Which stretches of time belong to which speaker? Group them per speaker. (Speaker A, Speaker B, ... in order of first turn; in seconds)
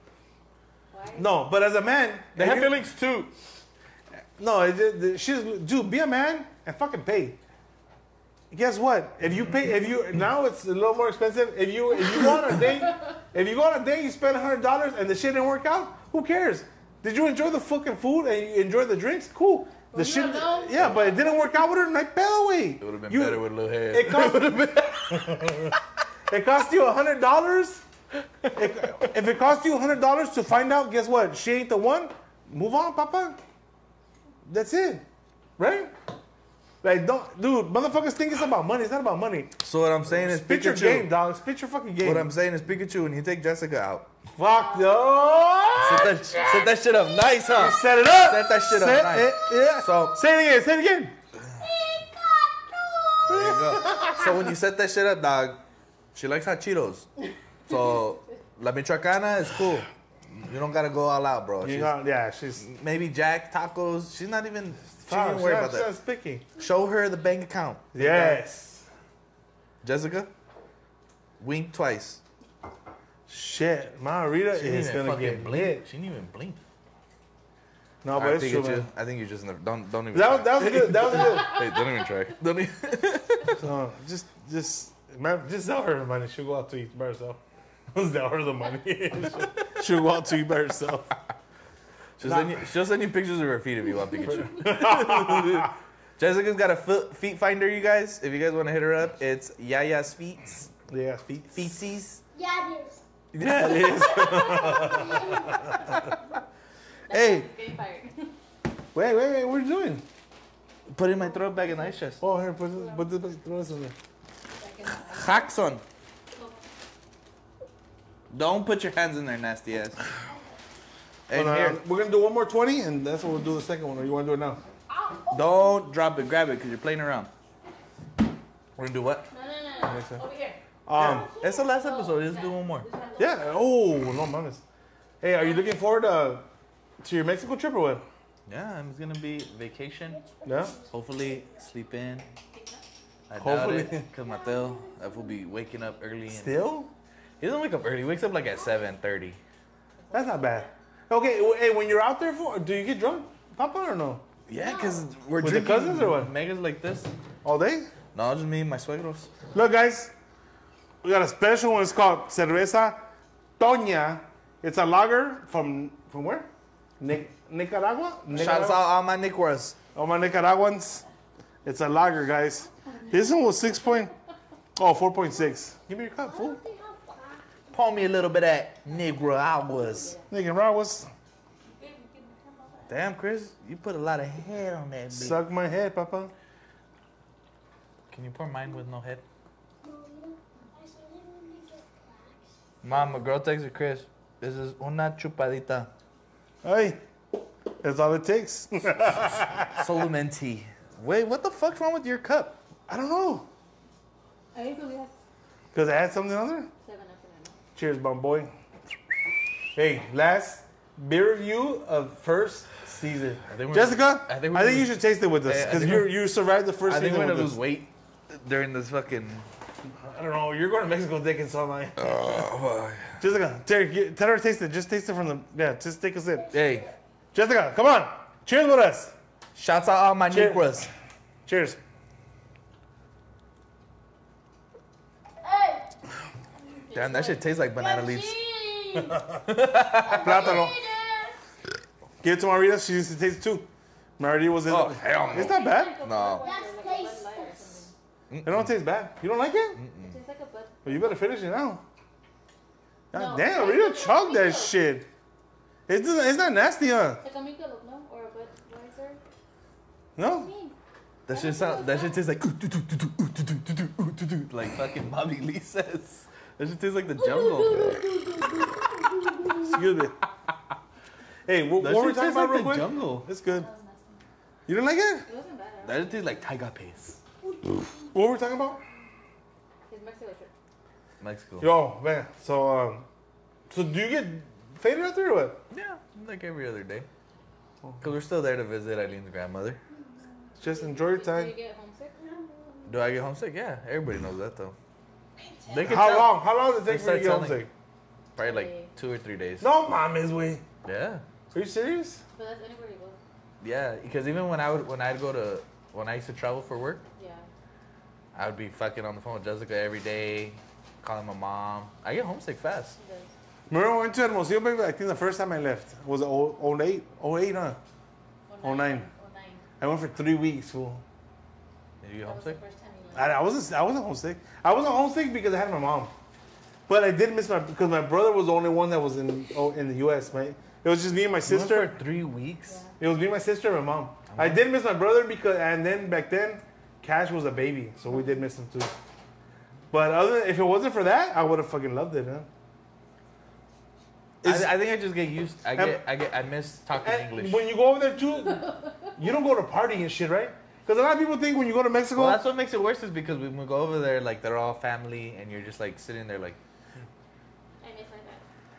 Speaker A: 0.9-1.4, 19.9-21.3, 107.1-108.3, 112.7-113.1, 129.3-130.6, 132.2-133.5, 142.5-142.8, 204.5-205.1, 206.8-207.6, 236.9-237.5, 245.3-247.9, 250.0-251.1, 253.1-254.8, 257.2-259.2, 260.2-260.8, 261.3-262.2, 275.2-276.4, 279.9-280.5, 290.6-292.2, 298.4-298.9, 302.3-303.2, 307.1-307.5, 313.0-313.3, 318.5-319.6, 322.2-323.4, 332.6-332.9, 348.5-349.1, 357.8-358.4
Speaker B: 1.1-2.8, 4.4-7.4, 8.5-25.7, 26.3-27.8, 28.5-33.4, 34.5-35.0, 35.6-35.9, 36.8-39.5, 40.1-42.3, 44.4-46.4, 47.5-51.1, 61.6-62.6, 65.0-66.5, 67.9-68.9, 73.3-75.8, 78.0-78.9, 80.1-81.6, 83.6-87.4, 87.9-91.1, 92.2-92.6, 94.4-95.7, 100.9-101.7, 103.4-105.2, 108.9-110.0, 112.2-113.9, 121.3-124.6, 129.8-130.2, 130.8-131.3, 133.2-134.6, 135.2-136.4, 137.0-138.0, 140.4-140.8, 143.4-144.1, 146.3-146.9, 150.1-154.2, 155.4-156.3, 157.4-157.9, 159.5-160.1, 161.0-163.0, 163.6-166.5, 167.0-168.8, 169.9-171.1, 171.6-174.1, 174.8-176.6, 180.3-181.1, 185.1-186.3, 196.6-197.0, 197.8-199.8, 202.9-203.5, 205.7-206.7, 207.7-208.5, 209.7-217.6, 220.0-222.4, 223.2-226.5, 227.3-229.1, 230.3-230.9, 231.4-231.8, 240.2-240.8, 242.2-245.9, 248.4-249.8, 250.8-251.8, 253.1-255.1, 255.9-257.2, 260.2-260.5, 269.6-270.1, 271.4-273.7, 274.7-275.3, 278.1-278.8, 281.6-283.1, 283.7-285.6, 290.6-291.5, 295.8-297.7, 299.6-300.6, 301.5-302.2, 313.7-317.8, 318.6-319.1, 319.8-321.0, 323.1-326.1, 326.9-332.0, 333.0-338.9, 339.9-342.5, 344.4-344.7, 345.7-346.0, 347.0-352.4
Speaker C: 2.3-3.3, 22.8-25.7, 39.6-41.1, 42.0-44.1, 45.8-50.2, 53.3-55.6, 56.1-57.1, 57.7-62.0, 62.6-65.9, 66.6-68.4, 69.8-70.3, 71.4-72.2, 74.5-76.6, 78.1-83.6, 92.2-100.7, 101.5-102.2, 103.3-105.2, 107.1-107.5, 110.9-112.2, 115.0-115.8, 118.3-120.0, 121.3-121.8, 125.3-127.3, 128.8-129.3, 130.9-132.9, 138.5-140.2, 140.9-142.2, 143.3-146.6, 147.4-149.4, 154.5-157.1, 158.1-159.3, 168.3-169.8, 177.7-180.1, 182.9-185.4, 188.1-189.2, 192.8-195.9, 199.7-202.6, 213.5-216.2, 216.8-219.5, 222.0-223.2, 226.5-226.9, 229.5-230.9, 236.9-238.4, 239.4-240.7, 244.7-246.4, 248.3-248.7, 249.7-250.2, 261.2-268.0, 271.8-273.3, 275.8-277.2, 281.2-281.7, 285.7-287.1, 288.0-289.8, 292.9-294.8, 295.7-297.7, 298.4-299.7, 300.8-301.2, 303.6-307.0, 308.3-313.0, 322.0-322.6, 331.4-332.8, 334.3-334.6, 344.4-347.6, 352.1-356.6
Speaker D: 51.6-54.2, 102.3-103.0, 103.6-106.0, 114.6-115.5, 124.9-125.8, 129.7-133.5, 140.2-140.8, 144.2-145.3, 150.1-150.6, 154.6-155.0, 176.2-177.8, 181.8-183.0, 189.8-192.9, 235.4-235.9, 237.7-239.2, 240.0-241.3, 246.4-247.9, 267.2-269.8, 273.5-274.2, 277.4-277.8, 292.2-292.9, 295.4-296.0